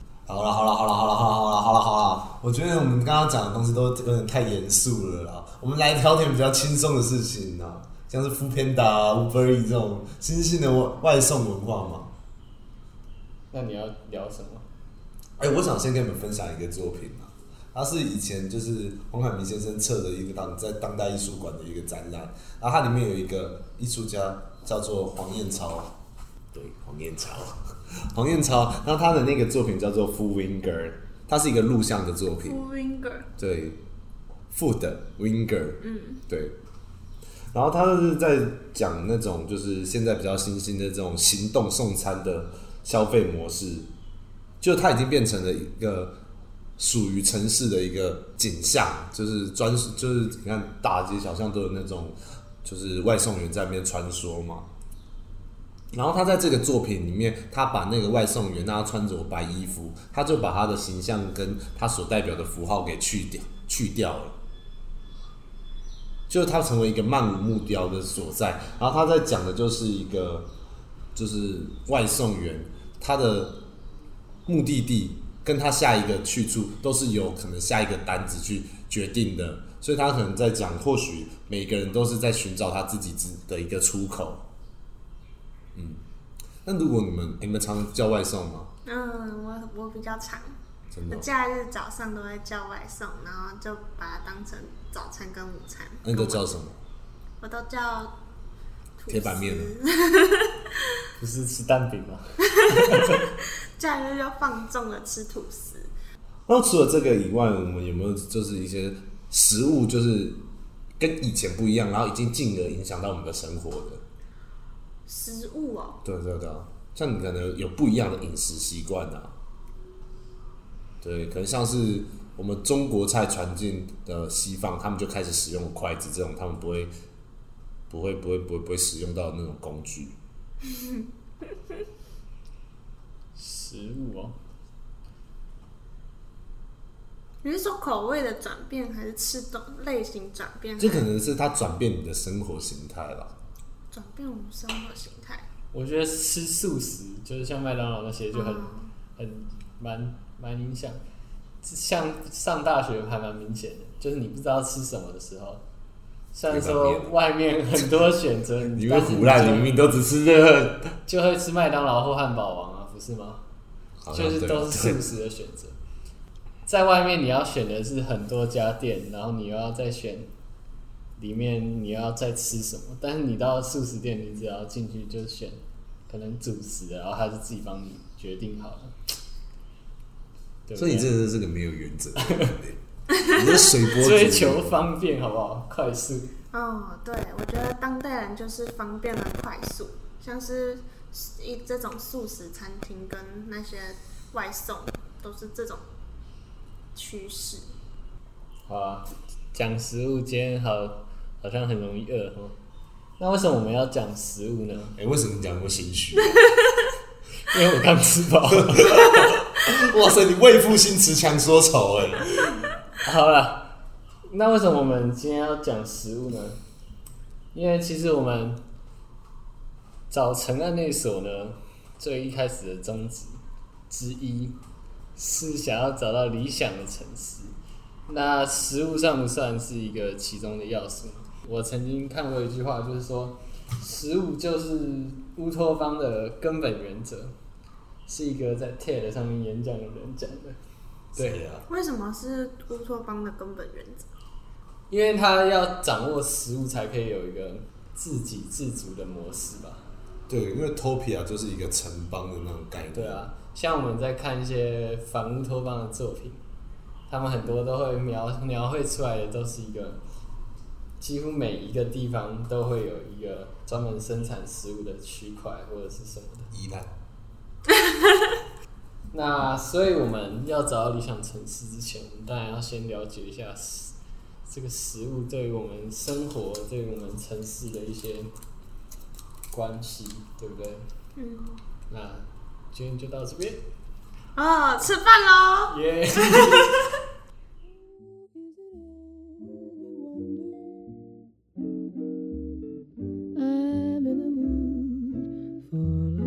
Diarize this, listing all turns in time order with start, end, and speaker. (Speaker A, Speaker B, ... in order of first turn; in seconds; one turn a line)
Speaker A: 0.3-12.1
Speaker B: 13.5-14.7
Speaker A: 15.4-25.9
Speaker A: 26.5-32.6
Speaker C: 32.4-33.3
Speaker A: 33.4-33.8
Speaker A: 34.5-36.5
Speaker C: 35.8-36.2
Speaker A: 37.5-43.9
Speaker A: 44.6-46.1
Speaker A: 46.8-54.7
Speaker A: 55.9-64.3
Speaker A: 66.3-70.5
Speaker A: 71.1-73.6
Speaker A: 74.5-84.4
Speaker A: 85.7-86.0
Speaker A: 86.6-88.7
Speaker C: 88.8-90.6
Speaker A: 90.9-91.3
Speaker C: 91.1-96.4
Speaker A: 96.0-96.8
Speaker C: 97.4-98.1
Speaker C: 99.0-100.7
Speaker A: 99.1-99.7
Speaker B: 101.2-103.2
Speaker C: 102.5-105.9
Speaker A: 106.5-110.4
Speaker A: 111.0-114.0
Speaker C: 115.1-116.0
Speaker A: 116.0-119.3
Speaker A: 121.0-126.9
Speaker A: 127.9-130.2
Speaker C: 130.6-131.1
Speaker B: 133.3-134.3
Speaker C: 137.4-141.1
Speaker A: 140.8-143.3
Speaker C: 143.9-145.4
Speaker B: 145.7-151.0
Speaker C: 148.3-148.9
Speaker B: 151.6-155.6
Speaker B: 156.3-159.7
Speaker A: 156.5-157.1
Speaker A: 158.7-160.9
Speaker B: 161.1-163.4
Speaker A: 164.0-165.0
Speaker B: 164.1-165.8
Speaker B: 166.7-170.3
Speaker B: 171.2-178.9
Speaker B: 180.7-181.1
Speaker A: 180.8-184.8
Speaker B: 182.2-182.6
Speaker C: 183.1-183.6
Speaker B: 184.0-186.3
Speaker C: 186.5-195.8
Speaker C: 196.9-197.7
Speaker B: 198.7-202.6
Speaker B: 203.2-205.0
Speaker A: 205.0-206.4
Speaker B: 207.4-209.3
Speaker A: 208.6-212.7
Speaker B: 213.0-213.7
Speaker B: 214.3-216.6
Speaker B: 217.5-218.6
Speaker B: 220.1-224.6
Speaker B: 225.2-227.5
Speaker B: 228.1-237.3
Speaker B: 238.1-240.6
Speaker B: 241.1-241.4
Speaker A: 241.1-241.7
Speaker C: 241.7-244.1
Speaker B: 244.9-249.9
Speaker A: 250.3-253.3
Speaker B: 252.9-256.4
Speaker B: 257.1-260.0
Speaker B: 261.0-266.5
Speaker A: 266.5-266.9
Speaker B: 269.1-273.9
Speaker B: 274.4-278.3
Speaker B: 279.5-280.9
Speaker C: 281.1-281.6
Speaker B: 281.9-283.6
Speaker C: 284.4-286.7
Speaker B: 285.7-286.8